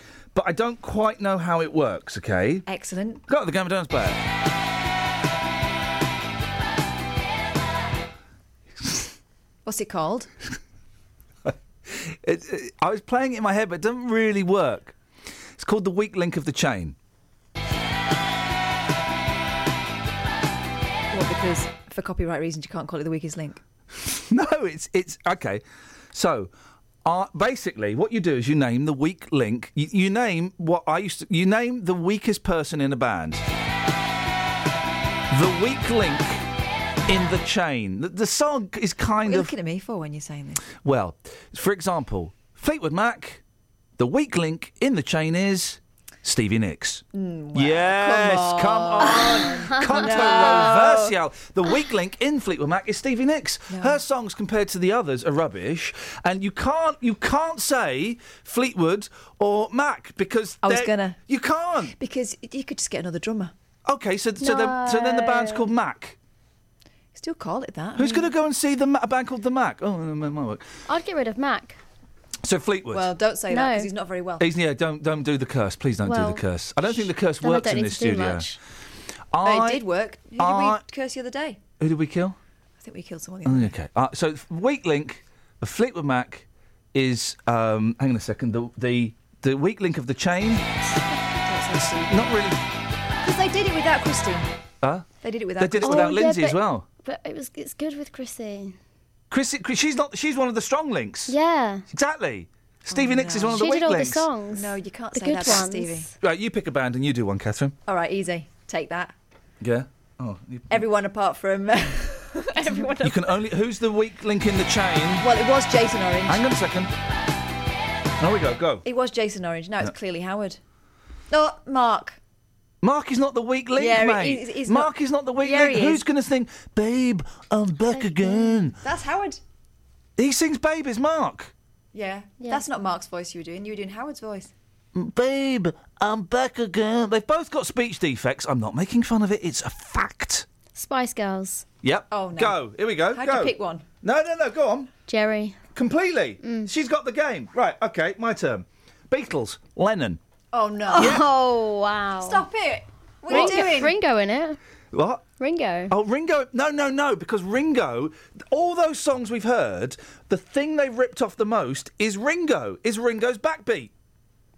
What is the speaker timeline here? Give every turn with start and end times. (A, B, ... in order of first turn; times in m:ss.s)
0:00.3-0:02.6 A
0:02.7-0:03.2 B
0:03.3-0:04.2 A
0:09.6-0:10.3 B
0:11.5-0:15.0 A
0:15.6-0:17.0 A
0:21.1-0:23.6 B
0:24.0-0:26.5 A
0:27.0-0:33.4 A
0:35.3-0:36.5 A
0:37.1-0:39.5 A
0:39.2-0:40.6 B
0:40.8-0:43.4 A
0:44.0-1:02.0 A
0:47.1-0:51.1 B
0:50.2-0:50.6 C
0:53.7-0:54.0 B
1:00.6-1:01.2 B
1:02.0-1:03.5 B
1:03.9-1:06.2 A
1:04.4-1:05.7 C
1:07.2-1:08.3 B
1:08.0-1:10.7 A
1:10.9-1:11.8 C
1:12.4-1:13.1 A
1:12.9-1:14.5 B
1:13.5-1:13.9 C
1:14.4-1:18.6 A
1:16.0-1:16.4 C
1:17.4-1:18.6 C
1:19.3-1:19.9 A
1:19.4-1:21.6 B
1:20.4-1:20.8 A
1:21.8-1:22.4 A
1:22.8-1:23.8 B
1:23.4-1:30.6 A
1:31.4-1:32.3 B
1:32.1-1:32.6 A
1:33.2-1:34.5 B
1:34.8-1:35.1 A
1:35.2-1:36.2 B
1:35.6-1:36.8 A
1:35.8-1:38.8 C
1:39.3-1:41.4 A
1:41.3-1:41.8 C
1:41.9-1:44.3 A
1:42.9-1:43.7 B
1:43.4-1:46.1 C
1:44.5-1:46.1 B
1:46.2-1:47.8 A
1:47.9-1:49.1 B
1:49.6-1:50.8 A
1:50.7-1:53.3 B
1:53.0-1:55.3 A
1:55.2-1:56.4 B
1:56.3-1:56.9 A
1:58.2-1:58.8 A
1:58.8-2:00.6 B
2:01.3-2:02.2 B
2:02.8-2:08.8 A
2:03.8-2:06.0 B
2:07.9-2:08.7 C
2:08.8-2:09.4 B
2:10.2-2:11.5 A
2:11.9-2:14.5 B
2:14.9-2:20.5 A
2:20.8-2:21.7 C
2:21.8-2:24.9 A
2:22.1-2:23.8 B
2:25.1-2:25.6 C
2:25.7-2:30.2 A
2:26.4-2:26.7 C
2:30.5-2:31.2 B
2:30.9-2:32.5 C
2:31.0-2:31.3 A
2:32.2-2:34.0 B
2:33.3-2:34.6 C
2:33.3-2:33.7 A
2:34.9-2:35.2 A
2:35.4-2:35.9 C
2:35.9-2:43.9 A